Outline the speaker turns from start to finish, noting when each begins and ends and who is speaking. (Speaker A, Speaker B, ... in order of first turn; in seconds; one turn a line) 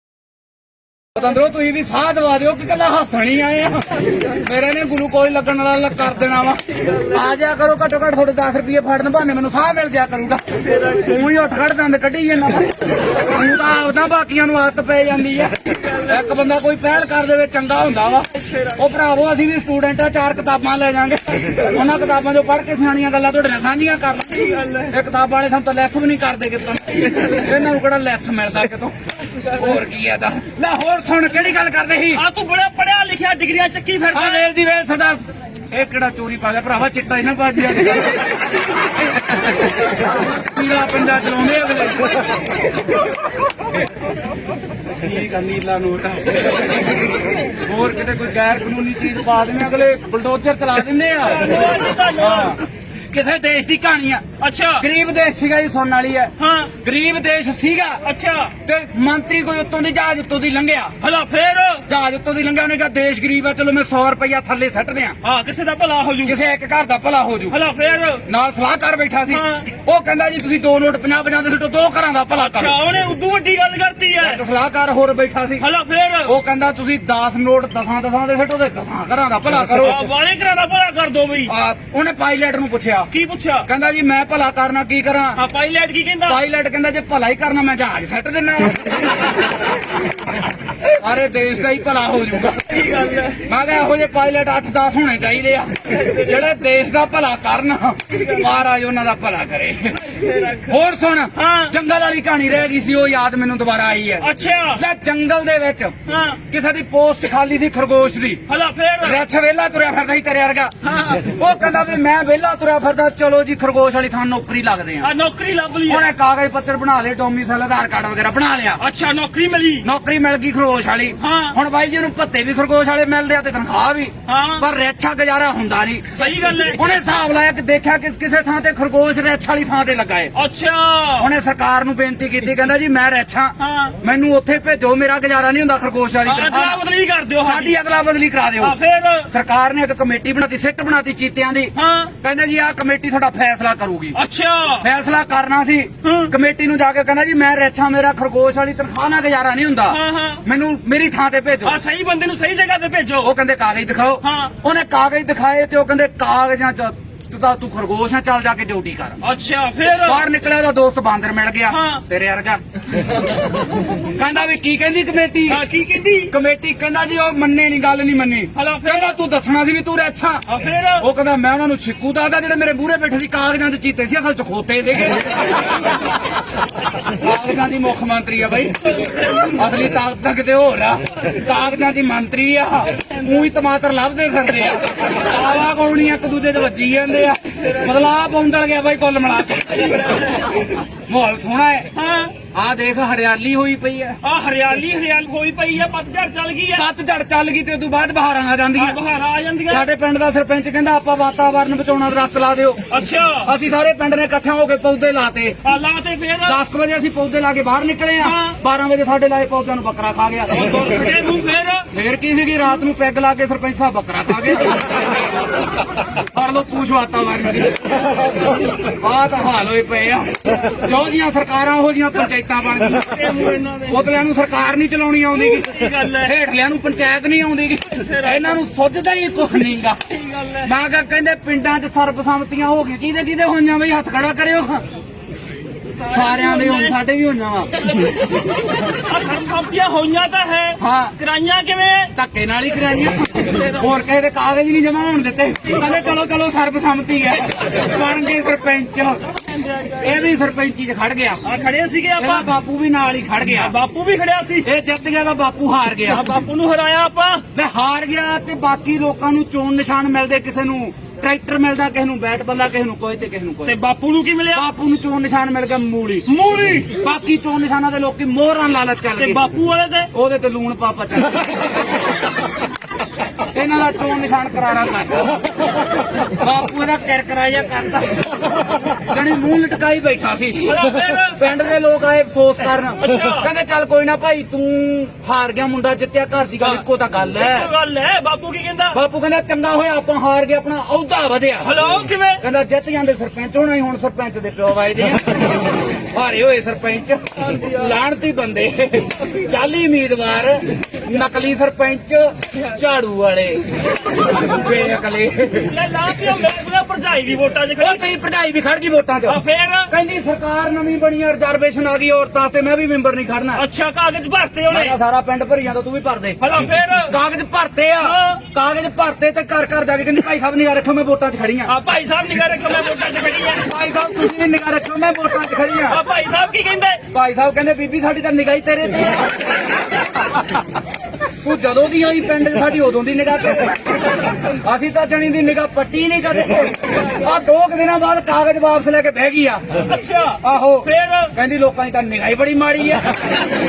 Speaker A: 1.1-32.2
Speaker B: 10.6-11.2
Speaker B: 15.8-16.2
Speaker B: 24.3-24.9
Speaker B: 32.1-34.5
Speaker A: 34.1-38.3
Speaker A: 39.9-42.2
Speaker A: 44.9-46.9
Speaker A: 47.5-51.6
Speaker B: 51.2-52.6
Speaker A: 52.2-54.2
Speaker B: 54.4-54.9
Speaker A: 54.8-58.0
Speaker B: 56.4-56.7
Speaker B: 58.0-58.5
Speaker A: 58.6-60.9
Speaker B: 61.0-61.9
Speaker A: 61.9-65.2
Speaker B: 65.2-66.4
Speaker A: 66.2-67.5
Speaker B: 67.5-68.2
Speaker A: 68.2-72.8
Speaker B: 69.3-69.7
Speaker B: 72.3-74.4
Speaker A: 74.2-75.6
Speaker B: 75.6-76.3
Speaker A: 76.2-80.1
Speaker B: 79.7-81.5
Speaker A: 81.5-83.1
Speaker B: 83.1-83.7
Speaker A: 83.7-85.4
Speaker B: 85.3-86.4
Speaker A: 86.2-89.1
Speaker A: 90.8-92.7
Speaker B: 92.7-93.5
Speaker A: 93.4-106.0
Speaker B: 96.0-96.3
Speaker B: 100.0-100.8
Speaker B: 101.3-101.7
Speaker B: 104.2-104.8
Speaker B: 106.0-106.4
Speaker A: 106.5-108.4
Speaker B: 108.5-109.2
Speaker A: 109.0-115.1
Speaker B: 110.8-111.3
Speaker B: 115.0-116.1
Speaker A: 115.9-118.8
Speaker B: 118.8-119.9
Speaker A: 119.8-130.3
Speaker B: 121.2-121.6
Speaker B: 124.3-124.6
Speaker B: 126.1-126.9
Speaker B: 130.3-131.3
Speaker A: 131.2-136.8
Speaker B: 133.6-133.9
Speaker B: 136.2-137.7
Speaker A: 137.4-138.8
Speaker B: 138.6-139.3
Speaker A: 139.3-144.2
Speaker B: 141.8-142.1
Speaker B: 144.1-144.9
Speaker A: 144.8-151.8
Speaker B: 146.0-146.3
Speaker B: 149.9-150.4
Speaker B: 151.6-153.3
Speaker A: 153.2-159.2
Speaker B: 154.2-154.6
Speaker B: 159.2-160.2
Speaker A: 160.0-162.6
Speaker B: 161.7-162.0
Speaker A: 163.8-165.6
Speaker B: 165.5-166.3
Speaker A: 166.3-175.4
Speaker B: 168.5-169.2
Speaker B: 170.4-171.1
Speaker A: 177.0-190.4
Speaker B: 178.9-179.6
Speaker B: 189.7-190.7
Speaker A: 191.0-191.9
Speaker B: 191.9-192.3
Speaker A: 192.5-194.2
Speaker B: 194.2-196.9
Speaker A: 196.7-199.0
Speaker B: 198.7-199.9
Speaker A: 199.7-202.9
Speaker B: 202.9-203.5
Speaker A: 203.4-205.6
Speaker B: 205.6-206.6
Speaker A: 206.4-211.1
Speaker B: 208.2-208.6
Speaker B: 210.5-211.9
Speaker A: 211.9-215.1
Speaker A: 216.2-218.0
Speaker A: 218.6-230.0
Speaker B: 222.9-224.2
Speaker B: 225.3-226.3
Speaker B: 227.9-228.6
Speaker B: 230.1-230.7
Speaker A: 230.6-234.8
Speaker B: 235.9-236.9
Speaker A: 236.1-237.9
Speaker B: 237.8-242.1
Speaker A: 240.8-241.1
Speaker A: 242.1-249.3
Speaker B: 249.3-250.3
Speaker A: 250.0-251.4
Speaker B: 251.4-252.5
Speaker A: 252.2-253.7
Speaker B: 253.4-254.7
Speaker A: 254.6-256.3
Speaker B: 256.1-257.4
Speaker A: 257.5-263.8
Speaker B: 263.6-264.7
Speaker A: 264.5-266.3
Speaker B: 266.2-266.9
Speaker A: 267.0-269.4
Speaker B: 269.2-270.1
Speaker A: 270.1-271.7
Speaker A: 273.5-275.5
Speaker A: 276.2-287.7
Speaker B: 280.6-281.5
Speaker B: 283.0-283.5
Speaker B: 286.6-289.0
Speaker A: 288.9-291.7
Speaker B: 291.6-292.4
Speaker A: 292.4-305.7
Speaker B: 297.5-297.9
Speaker B: 305.6-308.1
Speaker A: 307.8-313.6
Speaker B: 309.2-309.9
Speaker B: 313.5-314.9
Speaker A: 314.7-316.4
Speaker B: 316.4-317.1
Speaker A: 317.0-321.7
Speaker B: 318.0-318.4
Speaker B: 321.6-323.7
Speaker A: 323.6-326.0
Speaker B: 325.9-327.0
Speaker A: 327.1-329.4
Speaker A: 331.2-339.8
Speaker B: 339.8-341.3
Speaker A: 340.4-343.4